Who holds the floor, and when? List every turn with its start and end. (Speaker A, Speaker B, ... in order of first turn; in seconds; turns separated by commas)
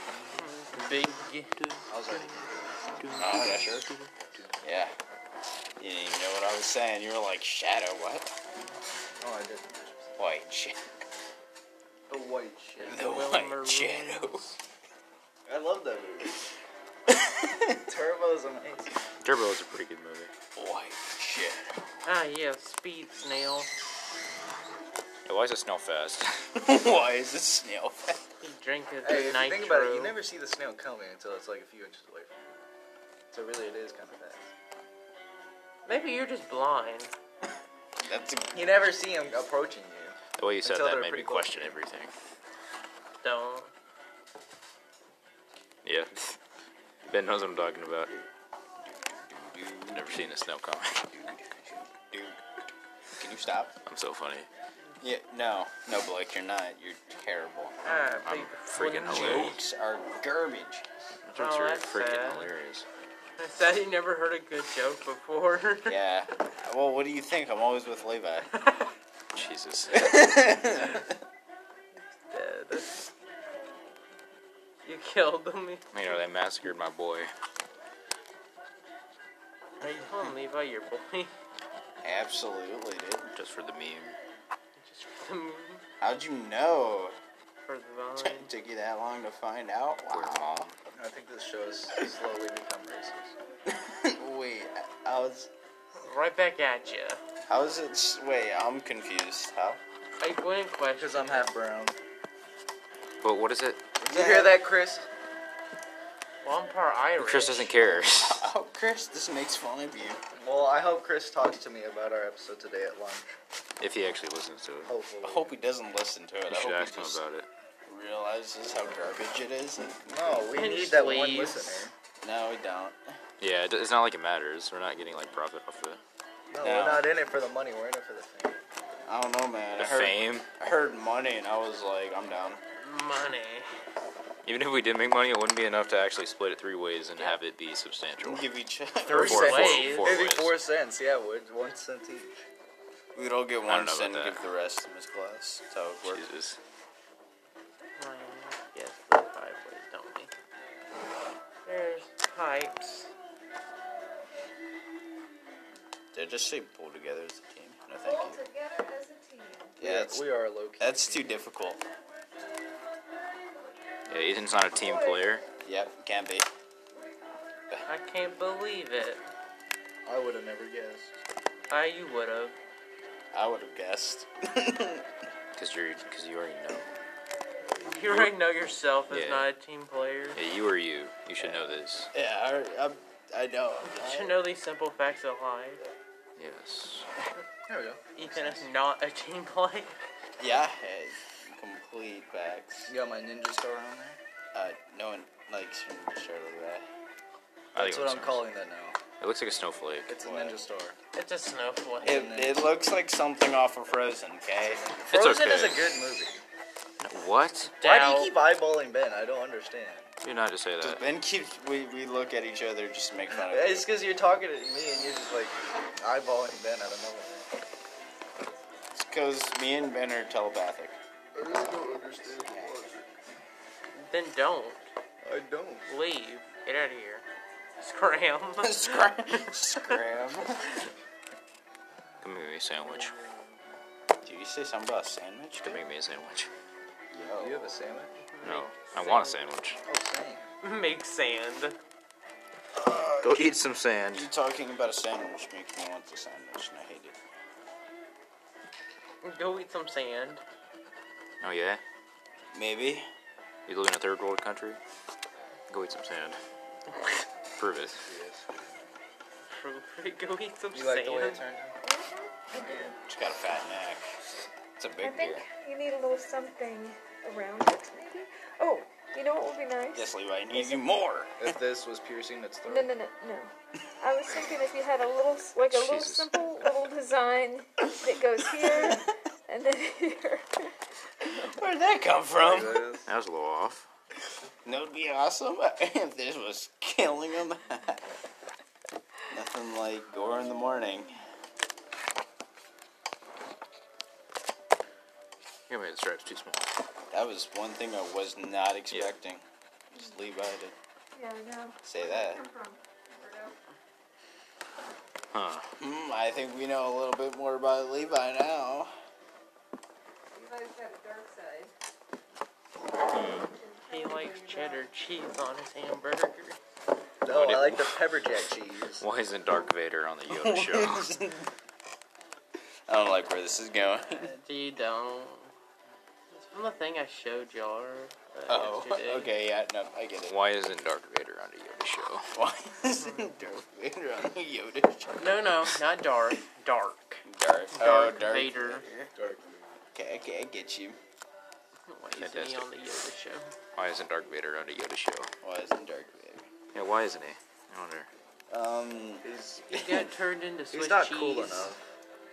Speaker A: 0.3-1.8, Speaker B: 1.9-2.8, Speaker C: 3.0-3.4, Speaker D: 3.1-3.9, Speaker D: 4.6-4.9, Speaker D: 5.8-8.4, Speaker B: 9.2-10.2, Speaker D: 10.2-10.8, Speaker B: 12.1-13.2, Speaker A: 12.8-14.5, Speaker D: 12.8-14.5, Speaker B: 15.4-16.4, Speaker D: 17.1-17.8, Speaker B: 17.8-18.9, Speaker C: 19.2-20.3, Speaker D: 20.5-21.6, Speaker A: 22.0-23.7, Speaker C: 25.2-26.5, Speaker D: 26.6-28.2, Speaker A: 28.4-30.1, Speaker B: 29.0-32.6, Speaker B: 33.3-34.5, Speaker A: 35.9-37.1, Speaker D: 38.0-38.7, Speaker B: 38.5-41.8, Speaker C: 40.4-42.1, Speaker A: 43.2-43.7, Speaker C: 45.8-46.4, Speaker C: 47.1-48.1, Speaker D: 48.9-50.3, Speaker C: 49.9-51.3, Speaker D: 51.1-52.4, Speaker D: 53.2-53.8, Speaker C: 53.9-54.5, Speaker D: 55.0-57.8, Speaker A: 57.8-59.6, Speaker C: 58.2-59.6, Speaker D: 59.1-60.8, Speaker C: 61.2-62.9, Speaker A: 61.3-62.5, Speaker A: 63.4-66.0, Speaker D: 65.8-68.5, Speaker A: 68.5-68.9, Speaker C: 69.3-70.5, Speaker D: 69.9-71.1, Speaker A: 72.0-73.1, Speaker A: 74.8-76.2, Speaker C: 75.9-77.3, Speaker A: 79.8-81.3, Speaker D: 82.0-83.3, Speaker C: 83.3-84.2, Speaker A: 84.8-85.8, Speaker D: 86.0-87.1, Speaker A: 87.6-88.5, Speaker D: 88.2-90.6, Speaker C: 90.1-90.7, Speaker B: 90.9-93.3, Speaker D: 93.7-95.5, Speaker A: 96.0-97.2, Speaker D: 97.5-99.8, Speaker A: 100.2-101.5, Speaker B: 101.0-102.0, Speaker C: 103.2-103.9, Speaker B: 104.0-105.1, Speaker D: 104.1-104.6, Speaker A: 106.4-107.7, Speaker C: 107.2-108.5, Speaker D: 108.2-110.2, Speaker B: 110.3-113.3, Speaker C: 113.8-114.9, Speaker B: 114.8-115.6, Speaker D: 115.2-117.2, Speaker C: 116.5-117.5, Speaker D: 117.8-120.5, Speaker B: 120.1-121.9, Speaker A: 120.5-121.8, Speaker D: 122.2-123.2, Speaker C: 123.4-126.0, Speaker B: 126.5-128.6, Speaker D: 126.6-127.1, Speaker D: 129.0-132.6, Speaker C: 129.8-130.5, Speaker A: 132.8-133.7, Speaker C: 134.4-138.5, Speaker D: 138.2-139.8, Speaker C: 139.1-140.5, Speaker A: 139.1-140.2, Speaker B: 139.1-142.4, Speaker D: 143.1-146.2, Speaker C: 143.7-144.5, Speaker C: 146.0-146.6, Speaker A: 148.0-150.3, Speaker A: 151.7-153.1, Speaker D: 156.1-158.4, Speaker E: 158.0-159.8, Speaker D: 159.8-160.2, Speaker B: 159.8-161.3, Speaker D: 160.8-161.8, Speaker C: 164.1-165.4, Speaker E: 164.8-165.3, Speaker D: 165.6-166.5, Speaker A: 167.9-169.2, Speaker B: 170.1-171.1, Speaker A: 171.7-172.5, Speaker D: 173.3-175.0, Speaker C: 175.6-176.9, Speaker A: 177.8-180.4, Speaker C: 178.0-178.3, Speaker C: 179.1-179.5, Speaker C: 180.3-182.1, Speaker D: 181.4-184.4, Speaker A: 183.8-185.8, Speaker C: 186.4-187.1, Speaker B: 187.7-188.7, Speaker A: 188.2-189.9, Speaker D: 190.4-192.9, Speaker B: 192.9-194.2, Speaker D: 194.5-196.9, Speaker C: 197.7-198.4, Speaker B: 197.7-199.0, Speaker C: 199.2-200.5, Speaker B: 200.1-200.9, Speaker A: 201.1-202.3, Speaker D: 202.0-204.9, Speaker B: 202.0-202.6, Speaker B: 204.6-206.4, Speaker C: 205.1-205.9, Speaker C: 207.0-207.8, Speaker A: 207.8-208.3, Speaker B: 207.8-210.1, Speaker C: 210.2-211.0, Speaker D: 210.8-213.9, Speaker B: 213.3-217.5, Speaker D: 218.9-221.0, Speaker B: 221.3-223.1, Speaker D: 221.5-222.9, Speaker A: 223.9-224.9, Speaker B: 225.2-225.9, Speaker A: 225.9-227.2, Speaker A: 227.8-230.0, Speaker D: 228.6-230.7, Speaker C: 232.2-233.1, Speaker D: 234.2-235.8, Speaker C: 235.6-236.5, Speaker D: 237.1-237.7, Speaker B: 237.3-238.1, Speaker A: 238.3-239.4, Speaker C: 238.4-239.8, Speaker B: 239.9-240.5, Speaker A: 240.6-241.8, Speaker D: 242.7-247.2, Speaker C: 243.2-244.3, Speaker A: 249.2-250.4, Speaker C: 251.4-251.8, Speaker D: 252.5-253.1, Speaker C: 253.7-254.8, Speaker C: 255.7-256.4, Speaker C: 257.6-258.0, Speaker B: 258.0-258.9, Speaker A: 259.5-261.4, Speaker B: 260.7-261.8, Speaker E: 261.8-262.9, Speaker B: 262.6-262.9, Speaker D: 263.0-264.2, Speaker D: 264.8-265.5, Speaker E: 265.0-270.8, Speaker D: 269.9-271.5, Speaker B: 271.4-272.9, Speaker E: 272.7-280.7, Speaker C: 275.6-276.4, Speaker D: 278.7-279.0, Speaker D: 281.2-282.8, Speaker B: 282.3-283.1, Speaker C: 283.0-283.9, Speaker D: 284.6-288.1, Speaker D: 289.3-291.1, Speaker C: 295.7-296.7, Speaker D: 297.1-300.7, Speaker E: 301.1-303.5, Speaker D: 301.8-302.4, Speaker C: 305.3-305.7, Speaker D: 305.8-308.9, Speaker E: 310.3-311.7, Speaker C: 313.1-313.5, Speaker E: 313.1-314.9, Speaker A: 313.9-316.6, Speaker B: 317.2-319.0, Speaker C: 317.3-318.0, Speaker C: 319.0-321.1, Speaker D: 320.3-321.5, Speaker D: 322.9-324.4, Speaker A: 324.3-325.5, Speaker A: 326.3-329.3, Speaker D: 328.5-330.4, Speaker C: 330.3-332.3, Speaker D: 332.3-335.6, Speaker A: 333.0-333.3, Speaker A: 335.2-338.8, Speaker D: 337.2-339.1, Speaker B: 339.1-339.6, Speaker D: 339.9-341.0, Speaker A: 341.9-343.5, Speaker C: 342.1-342.7, Speaker C: 343.8-345.3, Speaker D: 345.4-346.5, Speaker C: 346.7-348.1, Speaker D: 348.5-350.1, Speaker B: 349.2-349.7, Speaker A: 349.7-351.7, Speaker B: 350.7-351.8